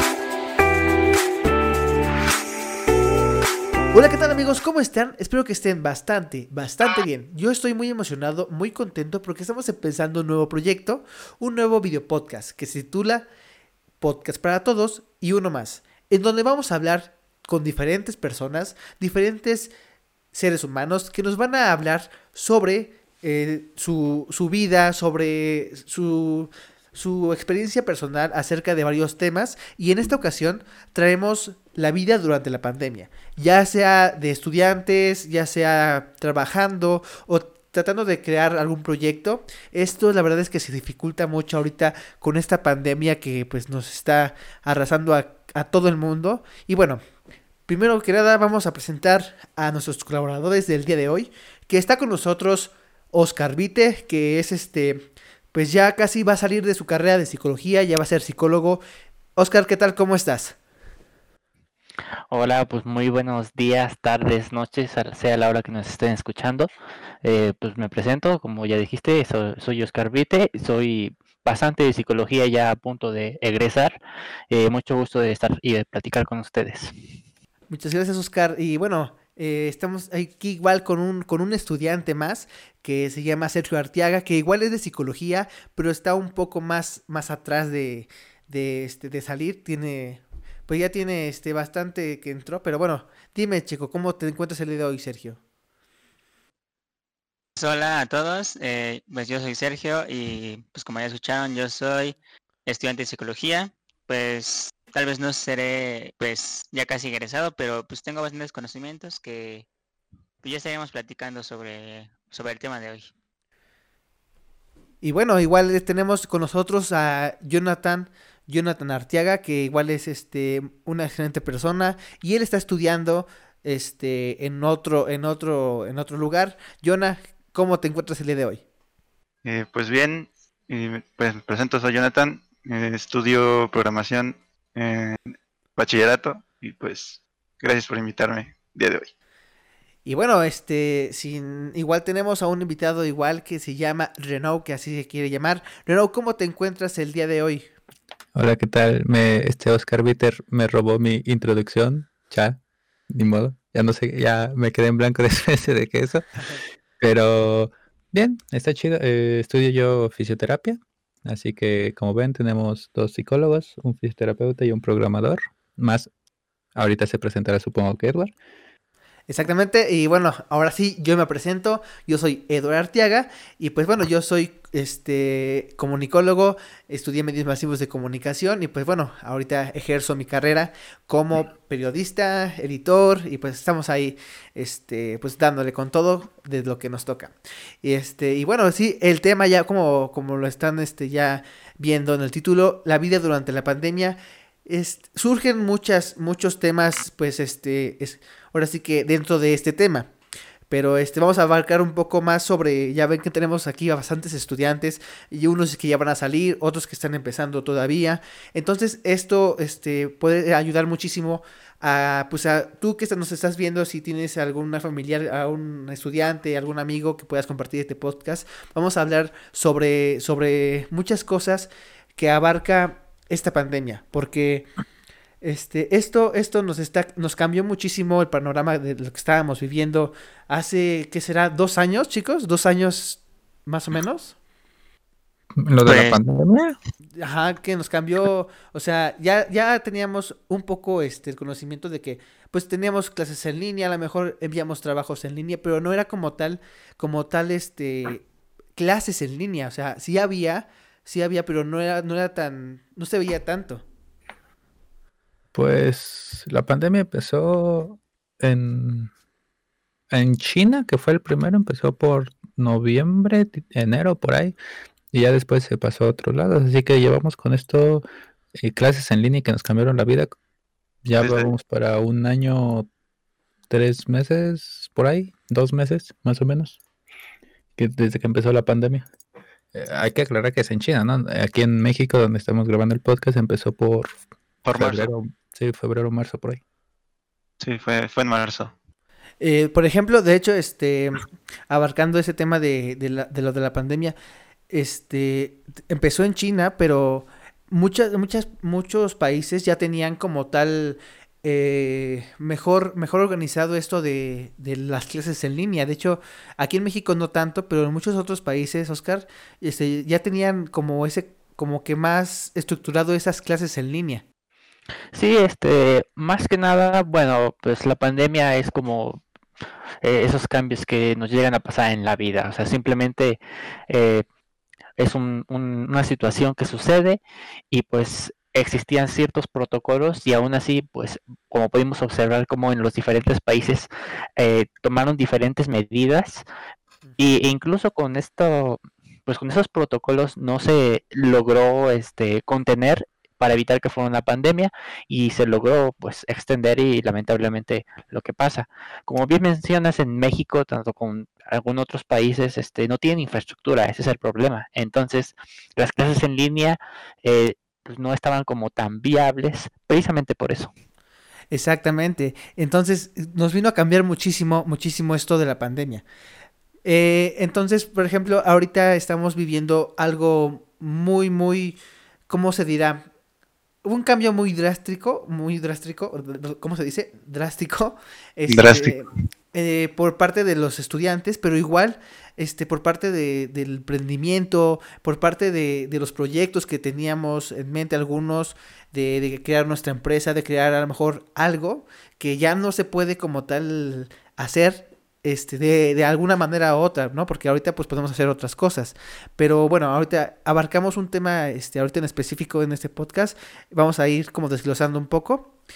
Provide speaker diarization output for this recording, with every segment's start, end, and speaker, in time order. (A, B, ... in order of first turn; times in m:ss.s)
0:03.9-0:13.2 A
0:14.0-0:19.7 A
0:20.3-0:47.0 A
0:47.7-0:58.8 A
0:59.4-1:00.6 A
1:02.3-1:06.7 B
1:07.2-1:14.0 B
1:14.5-1:16.9 B
1:17.7-1:35.4 A
1:37.6-1:49.6 C
1:50.4-1:53.1 C
1:55.0-2:08.6 A
2:09.4-2:19.1 D
2:20.0-2:27.7 A
2:28.3-2:36.2 E
2:37.0-2:46.1 E
2:46.7-2:48.3 E
2:49.3-3:20.1 A
3:20.7-3:44.7 A
3:45.4-3:54.4 A
3:55.6-3:56.8 E
3:55.8-3:56.2 C
3:57.2-4:08.2 A
4:08.8-4:13.8 A
4:15.5-4:19.1 E
4:20.1-4:24.5 E
4:25.1-4:28.0 E
4:28.6-4:30.3 E
4:31.0-4:32.9 E
4:31.2-4:31.5 D
4:33.7-4:36.8 E
4:37.8-4:39.0 E
4:39.7-4:44.2 E
4:44.6-4:45.1 D
4:44.7-4:46.6 E
4:47.6-4:48.7 D
4:49.4-4:54.2 A
4:54.7-5:14.2 A
5:15.1-5:19.2 B
5:20.0-5:23.4 B
5:23.9-5:24.2 B
5:25.0-5:27.2 B
5:27.7-5:36.4 B
5:37.2-6:00.7 B
6:01.5-6:06.0 A
6:06.8-6:13.1 A
6:13.8-6:45.5 A
6:18.5-6:19.0 D